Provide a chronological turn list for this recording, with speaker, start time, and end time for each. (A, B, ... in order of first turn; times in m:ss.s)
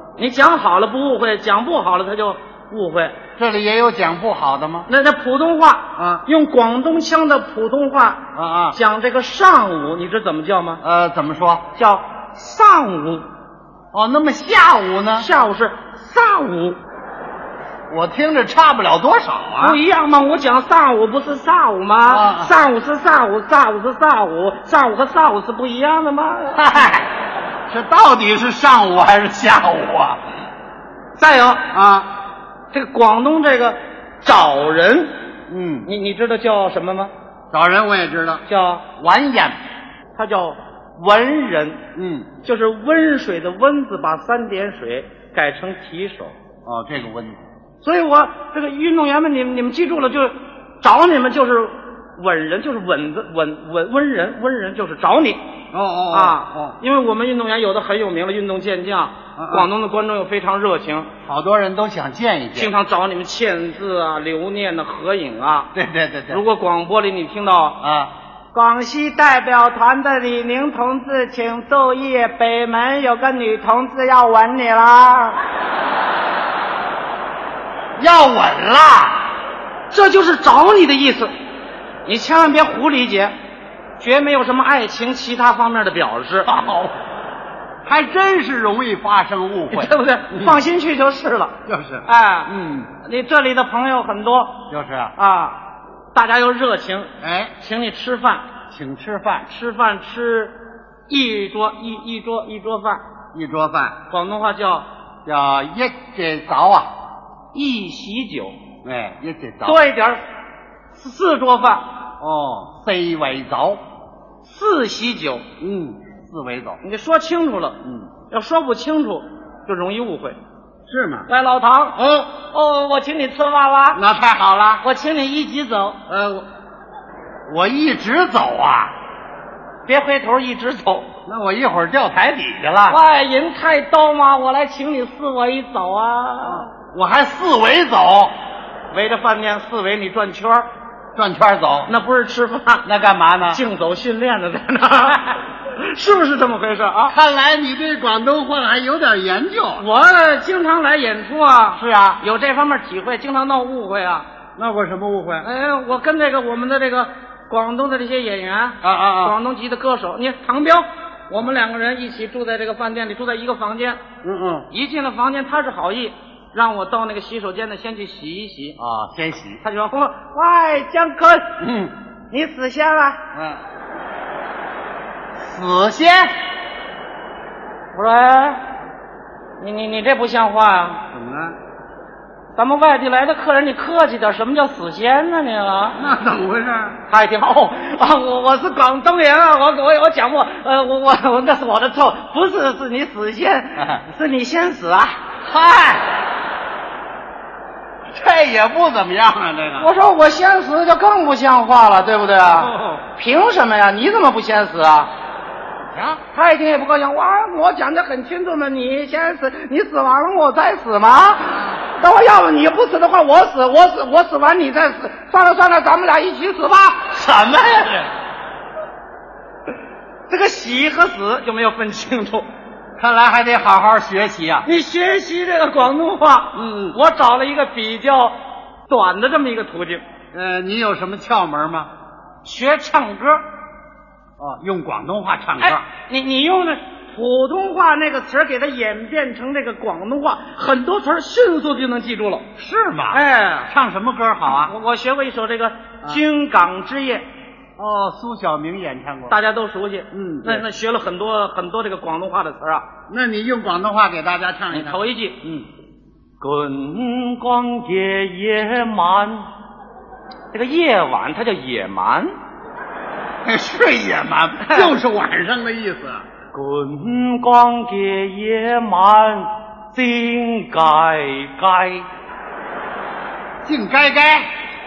0:00.2-0:03.2 A
0:03.4-0:04.9 B
0:04.9-0:10.8 A
0:06.0-0:06.2 B
0:08.3-0:08.8 B
0:10.8-0:11.7 B
0:11.7-0:13.2 A
0:13.9-0:15.3 B
0:15.2-0:16.8 A
0:17.9-0:19.8 B
0:19.6-0:26.9 A
0:22.1-0:22.5 B
0:26.5-0:27.1 B
0:27.7-0:30.2 B
0:31.2-0:31.6 A
0:31.7-0:32.1 B
0:32.7-0:35.2 A
0:35.5-0:35.9 B
0:35.8-0:37.1 A
0:37.5-0:38.4 B
0:38.5-0:38.9 A
0:39.0-0:39.6 B
0:40.1-0:41.8 A
0:41.9-0:42.3 B
0:42.4-0:46.3 A
0:46.6-0:47.4 B
0:47.8-0:55.4 A
0:55.7-0:56.8 B
0:56.1-1:01.1 A
0:59.4-0:59.7 B
1:01.2-1:02.7 B
1:02.6-1:05.7 A
1:05.7-1:06.4 B
1:06.3-1:07.8 A
1:07.8-1:08.1 B
1:08.5-1:15.4 A
1:18.0-1:19.3 B
1:19.9-1:21.3 A
1:22.1-1:23.3 A
1:24.0-1:26.5 A
1:26.5-1:26.9 B
1:27.8-1:30.6 B
1:29.7-1:35.6 A
1:31.6-1:32.9 B
1:34.7-1:35.2 B
1:36.1-1:38.4 A
1:37.2-1:37.5 B
1:38.7-1:39.5 B
1:39.5-1:43.0 A
1:43.3-1:44.0 B
1:44.1-1:44.9 A
1:45.2-1:46.9 B
1:47.5-1:48.6 A
1:48.8-1:49.8 B
1:49.6-1:50.2 A
1:50.9-1:51.9 A
1:52.2-1:53.8 B
1:54.4-1:55.4 A
1:55.6-1:56.8 B
1:56.8-2:00.4 A
2:00.9-2:01.3 B
2:01.3-2:04.0 A
2:02.0-2:02.4 B
2:03.9-2:04.8 B
2:04.8-2:06.0 A
2:06.1-2:06.4 B
2:07.5-2:08.9 B
2:09.8-2:11.1 A
2:11.2-2:13.0 B
2:12.8-2:16.7 A
2:16.4-2:18.3 B
2:18.9-2:20.7 A
2:21.1-2:21.9 B
2:21.9-2:22.9 A
2:22.8-2:23.6 B
2:23.5-2:27.2 A
2:27.1-2:29.8 B
2:29.8-2:34.3 A
2:31.8-2:32.2 B
2:34.6-2:35.5 B
2:35.4-2:44.0 A
2:38.8-2:39.3 B
2:44.2-2:44.7 B
2:44.7-2:48.8 A
2:48.8-2:49.6 B
2:49.6-2:51.6 A
2:51.6-2:51.9 B
2:52.3-2:53.2 A
2:53.3-2:53.6 B
2:55.4-2:56.3 B
2:57.9-2:58.6 A
2:59.6-3:01.0 A
3:01.1-3:01.6 B
3:02.5-3:06.0 A
3:06.0-3:07.0 B
3:07.1-3:15.2 A
3:15.4-3:16.1 B
3:18.1-3:19.9 B
3:19.8-3:25.1 A
3:22.6-3:23.0 B
3:25.9-3:26.2 B
3:26.3-3:37.2 A
3:37.1-3:38.1 B
3:40.3-3:42.5 A
3:43.0-3:44.7 B
3:44.6-3:48.4 A
3:46.6-3:47.0 B
3:48.9-3:50.0 A
3:50.3-3:51.9 B
3:52.4-3:53.4 A
3:54.4-3:55.8 B
3:55.6-4:02.5 A
4:02.6-4:04.7 B
4:03.1-4:03.7 A
4:04.6-4:07.2 A
4:07.8-4:09.4 B
4:09.3-4:12.9 A
4:10.1-4:10.6 B
4:13.1-4:15.7 B
4:14.7-4:15.4 A
4:16.4-4:19.5 A
4:20.5-4:22.3 A
4:23.4-4:26.2 B
4:24.7-4:25.0 A
4:26.5-4:32.1 A
4:33.6-4:34.5 B